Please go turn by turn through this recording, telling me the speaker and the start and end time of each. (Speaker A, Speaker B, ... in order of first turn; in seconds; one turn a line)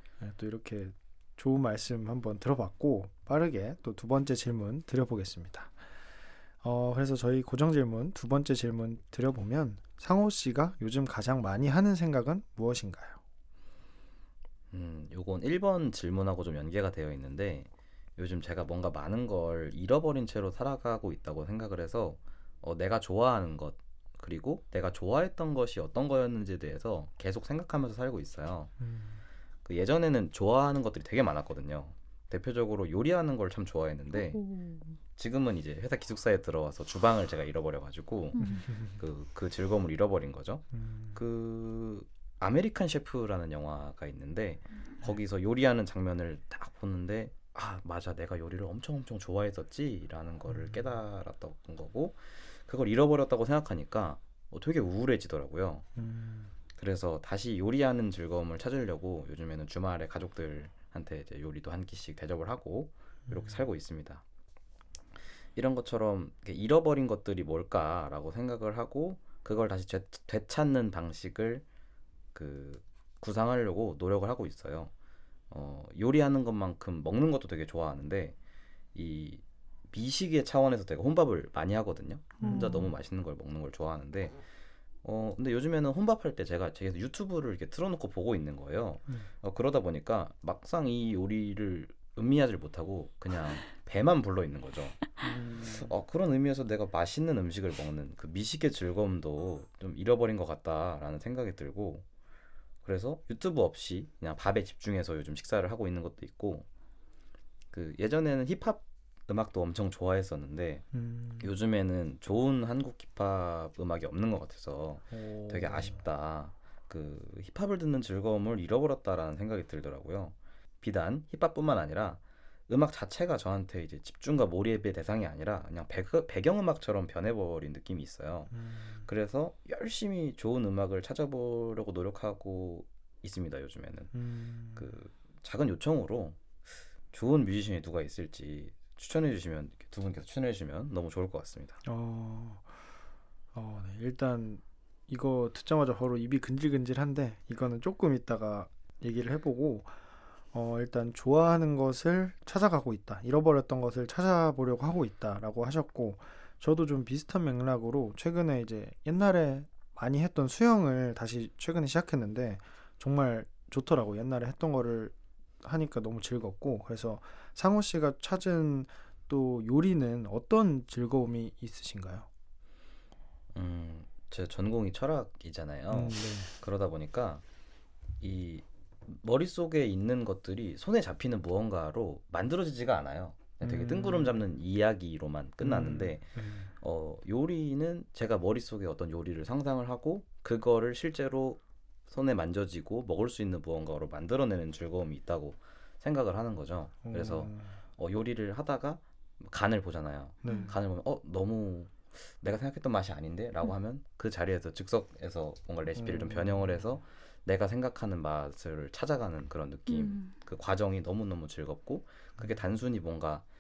Speaker A: 0.2-5.8
Speaker A: 6.6-13.2
Speaker B: 14.7-28.7
Speaker A: 28.8-29.2
Speaker B: 29.6-34.4
Speaker C: 34.3-34.9
Speaker B: 35.2-55.9
Speaker C: 38.4-38.6
Speaker A: 38.4-39.0
Speaker A: 40.7-41.2
Speaker A: 50.5-51.0
Speaker A: 56.0-56.5
Speaker B: 56.8-64.2
Speaker A: 63.3-63.6
Speaker B: 65.5-71.6
Speaker B: 72.3-74.9
Speaker B: 75.5-78.4
Speaker B: 79.0-84.4
Speaker A: 82.4-82.8
Speaker C: 82.4-82.9
Speaker B: 85.0-95.1
Speaker A: 95.2-95.9
Speaker B: 95.6-102.0
Speaker B: 102.8-106.7
Speaker B: 107.7-110.9
Speaker A: 110.9-111.5
Speaker B: 111.4-128.5
Speaker A: 115.1-116.0
Speaker A: 128.5-129.1
Speaker B: 129.0-134.1
Speaker A: 134.1-134.9
Speaker B: 134.8-136.4
Speaker B: 137.1-141.8
Speaker A: 141.8-142.7
Speaker A: 143.5-150.0
Speaker A: 150.5-172.3
Speaker B: 173.5-177.4
Speaker A: 175.9-176.5
Speaker B: 178.2-213.4
Speaker A: 183.6-184.4
Speaker A: 185.6-186.7
Speaker A: 197.0-197.8
Speaker A: 200.4-200.7
Speaker C: 200.4-200.7
Speaker A: 206.0-206.9
Speaker C: 209.9-210.3
Speaker A: 212.4-212.6